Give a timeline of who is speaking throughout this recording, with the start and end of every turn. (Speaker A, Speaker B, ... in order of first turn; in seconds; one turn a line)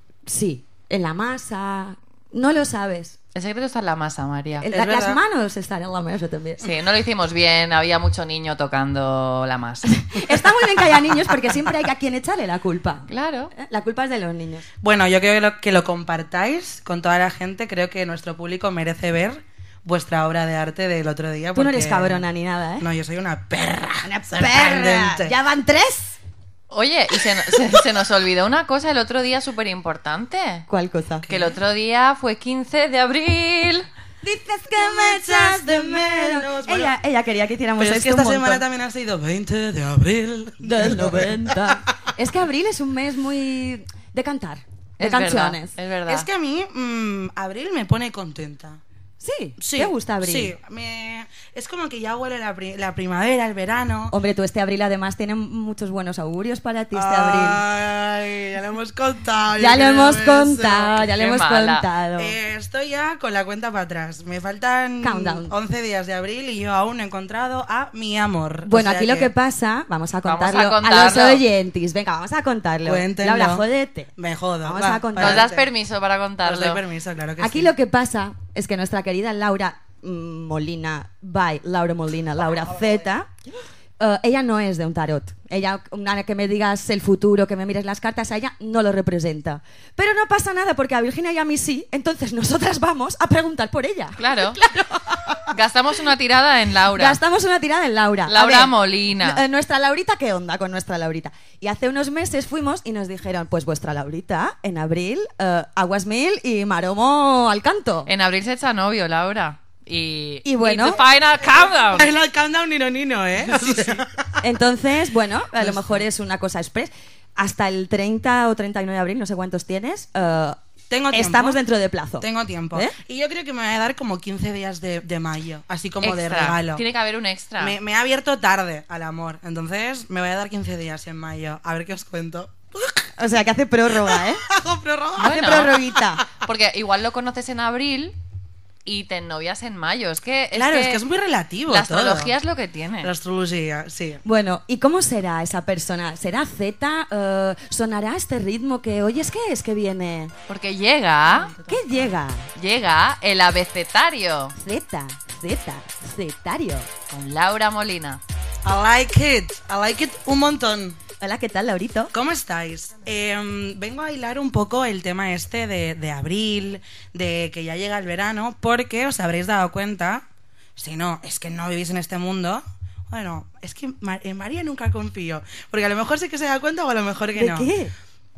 Speaker A: 0.3-3.2
Speaker B: 3.4-4.7
Speaker C: 4.6-5.2
Speaker A: 4.6-6.7
Speaker B: 6.6-10.0
Speaker A: 9.9-14.7
Speaker B: 13.1-13.5
Speaker C: 14.8-22.2
Speaker A: 21.6-22.9
Speaker C: 22.8-25.3
Speaker A: 24.0-26.2
Speaker B: 26.7-30.7
Speaker A: 30.7-31.3
Speaker C: 31.3-31.5
Speaker B: 31.3-33.9
Speaker A: 34.2-38.6
Speaker C: 34.7-37.0
Speaker C: 37.8-41.8
Speaker A: 40.6-45.7
Speaker B: 45.0-46.3
Speaker C: 46.1-48.8
Speaker A: 49.2-50.5
Speaker C: 49.6-54.1
Speaker A: 54.1-57.6
Speaker C: 56.9-61.0
Speaker A: 59.6-62.3
Speaker B: 61.1-61.9
Speaker C: 62.2-69.3
Speaker A: 65.0-65.5
Speaker A: 68.6-74.1
Speaker B: 70.2-71.5
Speaker C: 72.8-75.7
Speaker A: 74.6-75.5
Speaker B: 75.2-76.8
Speaker C: 76.4-77.7
Speaker A: 77.4-83.4
Speaker A: 84.0-95.5
Speaker B: 94.2-94.6
Speaker B: 95.5-97.2
Speaker A: 96.9-108.1
Speaker B: 98.3-99.4
Speaker B: 108.1-112.1
Speaker A: 110.5-111.0
Speaker C: 110.8-114.2
Speaker B: 113.5-113.8
Speaker A: 114.4-120.6
Speaker C: 115.6-116.0
Speaker C: 120.9-121.6
Speaker A: 121.1-123.0
Speaker C: 122.2-126.8
Speaker B: 126.0-127.8
Speaker C: 127.6-133.1
Speaker A: 133.2-134.4
Speaker C: 134.0-136.3
Speaker B: 135.2-135.8
Speaker A: 135.2-136.2
Speaker B: 136.3-138.2
Speaker B: 138.8-141.0
Speaker C: 140.5-142.3
Speaker B: 141.7-143.1
Speaker C: 143.0-144.2
Speaker A: 144.2-150.3
Speaker B: 150.5-151.6
Speaker C: 151.2-152.1
Speaker A: 151.7-152.5
Speaker B: 152.6-154.6
Speaker A: 154.6-156.9
Speaker B: 157.1-158.2
Speaker C: 158.6-161.0
Speaker A: 161.2-162.1
Speaker C: 162.1-170.2
Speaker C: 170.8-177.7
Speaker A: 177.4-177.9